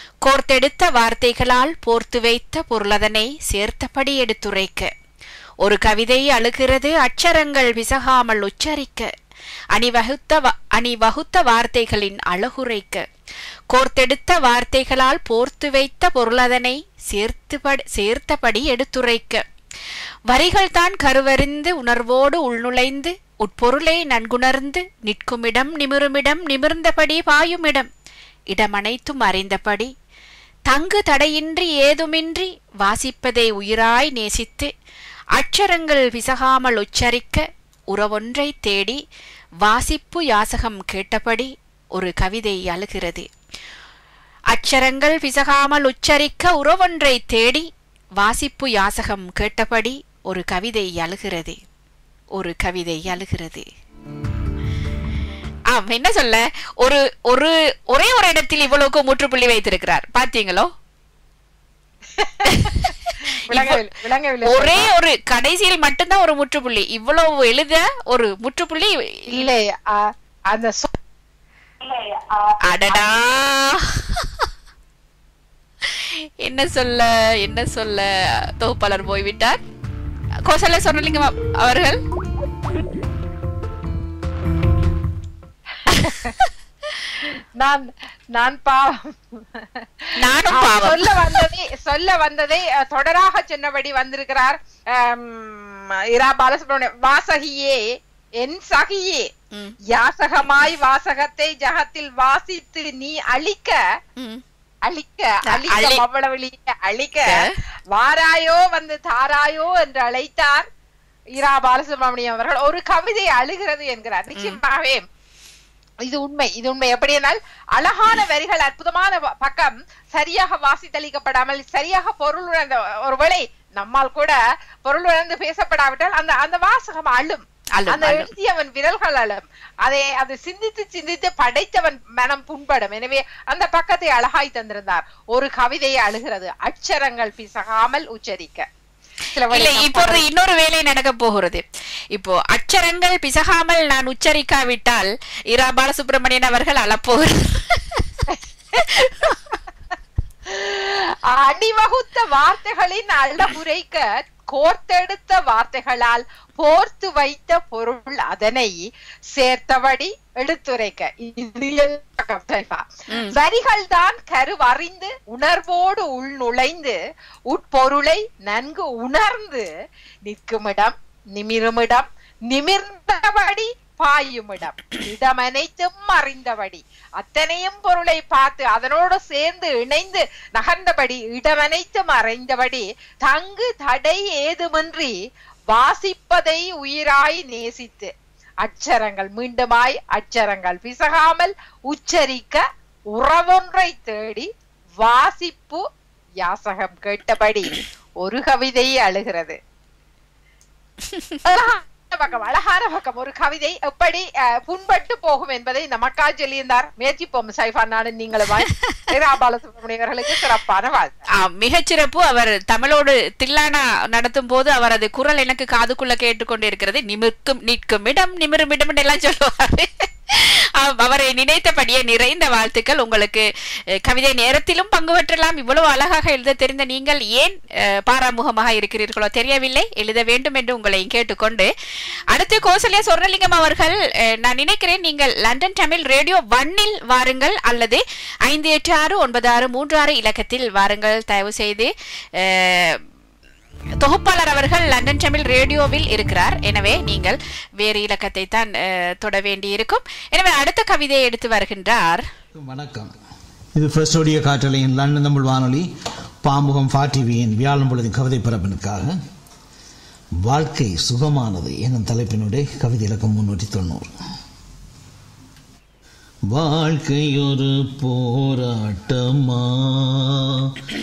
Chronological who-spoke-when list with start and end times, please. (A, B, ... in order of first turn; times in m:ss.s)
0:00.2-0:04.9 A
0:05.6-0:09.1 A
0:09.7-0:13.0 A
0:13.7-0:19.4 A
0:20.3-0:27.9 A
0:28.5-0:29.9 A
0:30.7-0:34.7 A
0:35.4-0:39.0 A
0:39.6-0:43.3 A
0:44.5-0:47.7 A
0:48.2-0:51.6 A
0:52.4-0:53.6 A
0:55.7-1:00.7 A
1:02.2-1:02.9 B
1:02.5-1:03.8 A
1:03.5-1:04.9 B
1:04.4-1:08.9 A
1:09.3-1:11.0 B
1:11.9-1:13.0 B
1:12.6-1:14.2 A
1:16.4-1:18.1 A
1:18.6-1:19.6 A
1:20.5-1:22.0 A
1:25.9-1:26.4 B
1:26.0-1:26.5 A
1:27.2-1:37.8 B
1:30.2-1:31.4 A
1:38.4-1:39.3 B
1:39.9-1:43.8 B
1:44.9-1:50.7 B
1:45.5-1:46.0 A
1:51.4-1:55.0 B
1:56.1-2:18.7 B
2:07.8-2:08.3 A
2:19.4-2:20.2 B
2:19.5-2:21.6 A
2:22.1-2:28.1 A
2:28.3-2:29.3 B
2:30.5-2:38.8 B
2:39.3-2:47.0 B
2:47.5-2:49.7 B
2:50.3-3:05.1 B
3:05.7-3:08.1 B
3:08.6-3:14.5 B
3:15.0-3:15.8 B
3:16.4-3:19.6 B
3:21.1-3:21.4 A
3:21.4-3:31.3 B
3:31.4-3:43.4 A
3:44.1-3:47.6 A
3:48.1-3:51.7 A
3:52.3-4:03.0 A
4:04.0-4:12.2 A
4:12.6-4:13.1 C
4:13.8-4:15.9 C
4:16.4-4:19.2 C
4:20.4-4:24.1 C
4:26.5-4:30.8 C